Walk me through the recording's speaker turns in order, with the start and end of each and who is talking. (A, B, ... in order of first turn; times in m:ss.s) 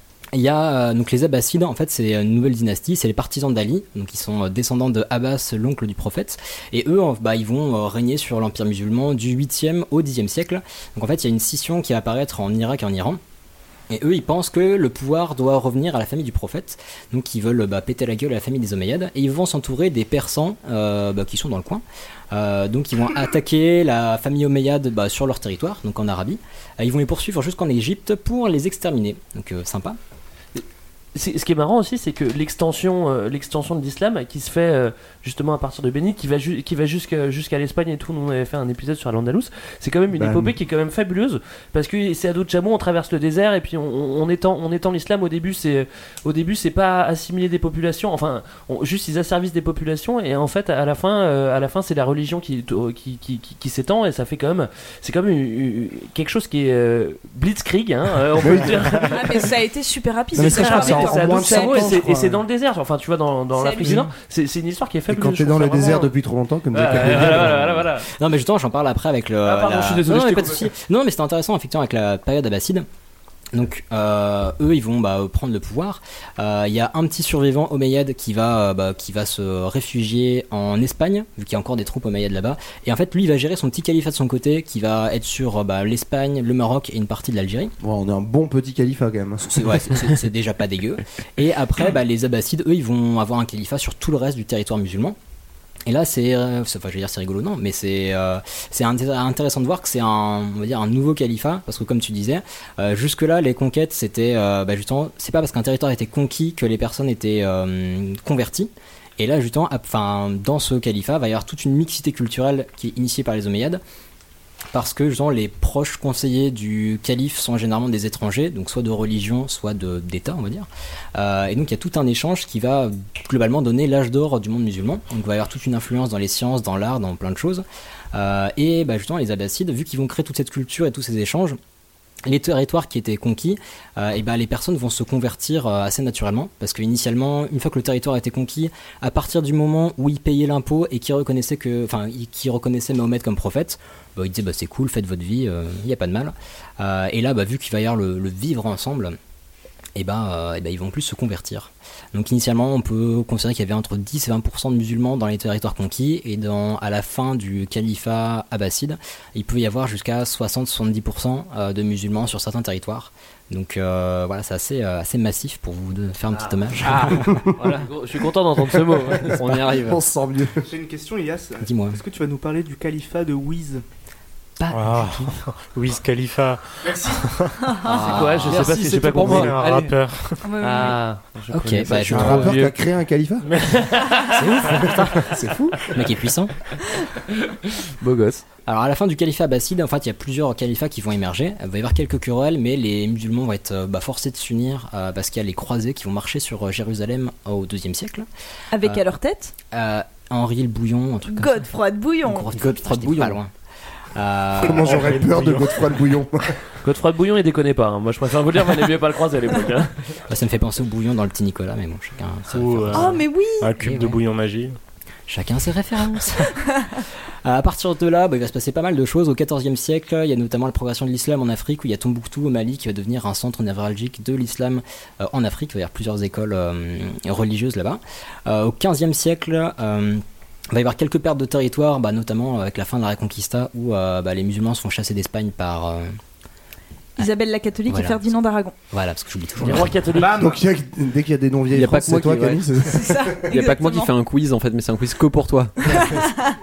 0:00.3-0:13.2 A
0:13.9-0:30.0 A
0:31.1-0:59.4 B
0:40.1-0:40.5 C
0:58.4-0:59.1 C
0:59.1-1:02.0 D
1:00.3-1:02.4 C
1:00.4-1:06.1 B
1:03.5-1:04.0 D
1:05.1-1:07.8 C
1:06.7-1:08.1 B
1:07.3-1:07.5 A
1:08.1-1:12.8 A
1:09.4-1:10.7 B
1:13.5-1:27.7 A
1:27.8-1:30.1 C
1:29.4-1:35.2 A
1:35.8-1:53.8 A
1:54.7-2:11.6 A
2:12.2-2:29.2 A
2:30.0-2:47.4 A
2:47.6-2:49.4 B
2:49.3-2:50.0 E
2:49.3-2:50.7 C
2:50.7-2:53.8 F
2:51.6-2:52.0 A
2:54.6-2:55.3 A
2:54.7-2:57.8 G
2:56.8-2:57.2 F
2:57.8-3:00.0 E
2:58.0-2:59.6 B
2:58.7-3:00.5 G
3:00.4-3:01.0 D
3:00.6-3:02.6 B
3:01.5-3:02.6 A
3:02.1-3:03.5 C
3:02.4-3:02.7 E
3:03.4-3:04.2 G
3:03.8-3:04.4 B
3:04.3-3:05.3 A
3:05.2-3:05.9 C
3:05.9-3:06.5 A
3:08.0-3:08.4 E
3:08.6-3:18.2 A
3:18.7-3:19.5 D
3:19.7-3:21.7 A
3:21.3-3:22.5 D
3:22.2-3:23.5 A
3:22.5-3:23.4 E
3:24.1-3:25.1 A
3:24.6-3:26.5 C
3:24.8-3:25.9 G
3:26.8-3:29.9 B
3:30.3-3:33.2 A
3:32.5-3:34.7 G
3:32.9-3:33.7 D
3:33.8-3:34.2 A
3:35.3-3:56.2 A
3:57.2-3:58.7 D
3:57.9-3:58.3 A
3:58.9-4:00.0 A
3:59.6-4:00.4 B
4:00.1-4:00.6 F
4:00.3-4:03.4 C
4:01.7-4:02.6 E
4:02.8-4:04.1 D
4:03.5-4:05.7 E
4:05.9-4:06.5 D